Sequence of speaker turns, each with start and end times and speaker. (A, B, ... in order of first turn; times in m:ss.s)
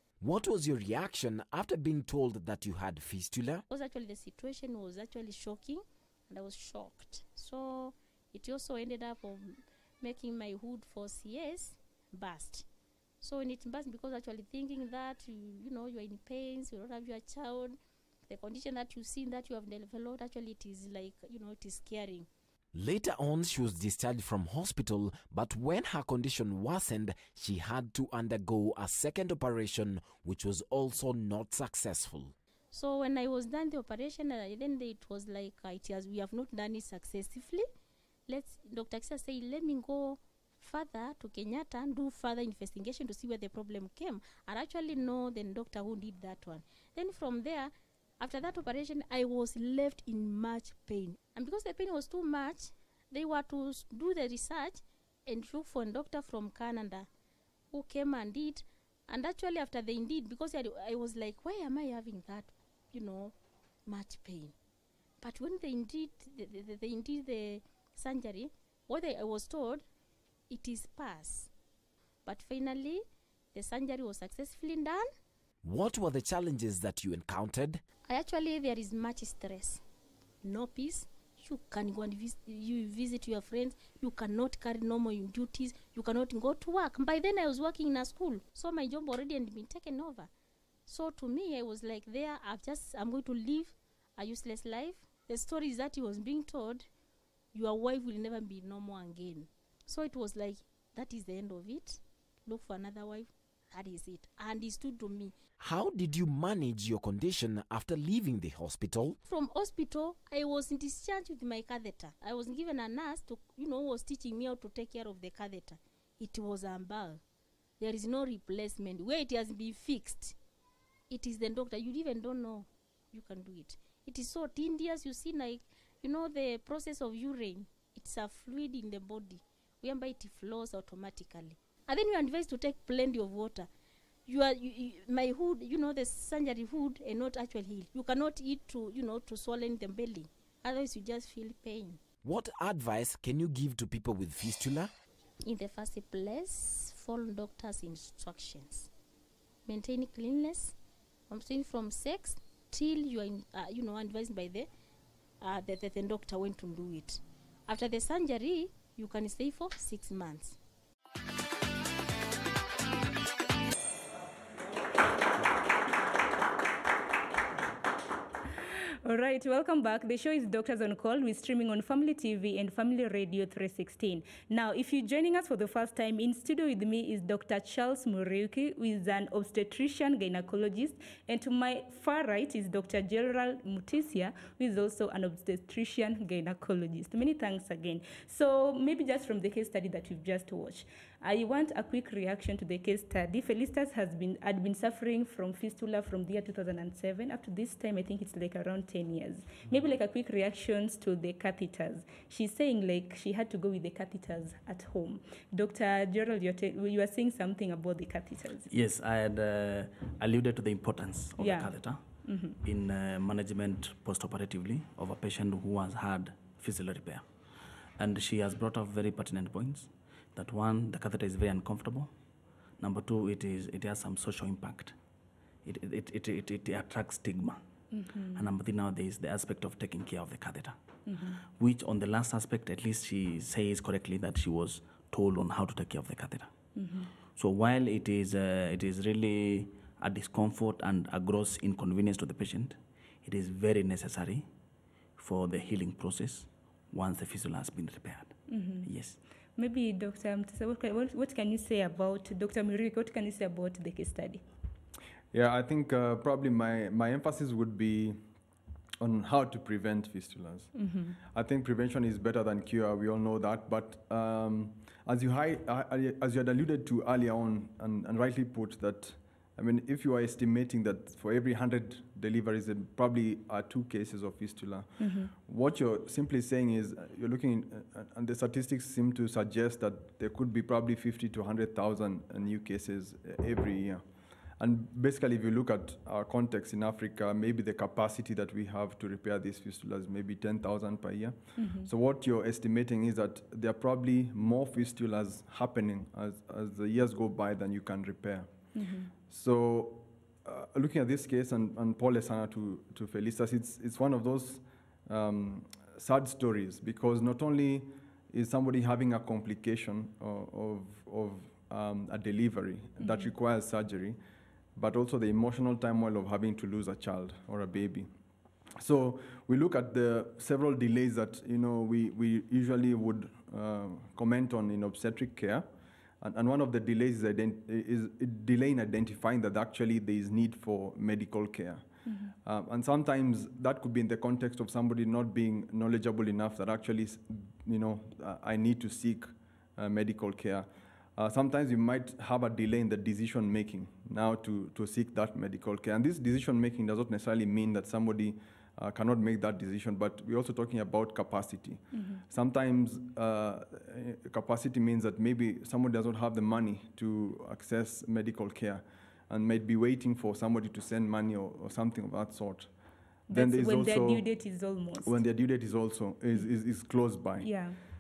0:00.2-0:03.6 A
0:03.7-0:12.7 B
0:13.2-0:17.8 B
0:18.3-0:22.3 B
0:22.7-0:32.3 A
0:32.7-0:37.7 B
0:38.3-0:57.1 B
0:57.7-1:03.3 B
1:03.9-1:04.5 B
1:05.2-1:09.8 B
1:10.5-1:11.5 B
1:12.2-1:15.0 B
1:15.6-1:17.8 A
1:18.1-1:19.8 B
1:20.4-1:30.3 B
1:30.9-1:36.9 B
1:37.5-1:45.3 B
1:45.6-1:49.2 A
1:49.3-1:57.2 B
1:57.8-2:00.4 B
2:01.1-2:13.7 B
2:14.3-2:22.0 B
2:22.2-2:24.9 A
2:25.4-2:28.9 B
2:29.7-2:30.8 B
2:31.3-2:34.7 B
2:35.4-2:40.6 B
2:49.0-3:28.7 C
3:28.7-3:32.0 D
3:31.4-3:31.7 C
3:32.2-3:32.6 C
3:32.6-3:37.3 D
3:38.0-3:42.1 D
3:42.8-3:45.0 D
3:45.6-3:47.6 D
3:47.9-3:48.4 C
3:48.4-3:50.8 D
3:51.1-3:51.4 C
3:51.6-3:56.5 D
3:56.8-3:57.1 C
3:57.4-4:04.5 D
4:05.2-4:09.2 D
4:08.5-4:08.9 C
4:09.6-4:14.4 C
4:15.3-4:18.2 E
4:19.0-4:44.0 E
4:20.8-4:21.2 C
4:35.0-4:35.3 C
4:44.6-4:58.5 E
4:51.6-4:51.9 C
4:58.8-4:59.1 C
4:59.3-5:14.2 E
5:13.0-5:13.3 C
5:14.8-5:18.1 E
5:18.8-5:25.7 E
5:26.2-5:31.8 E
5:32.1-5:32.3 C
5:32.4-6:02.7 E
5:51.9-5:52.2 C
6:03.3-6:05.2 C
6:03.3-6:04.3 E
6:05.0-6:07.5 E
6:07.4-6:07.8 C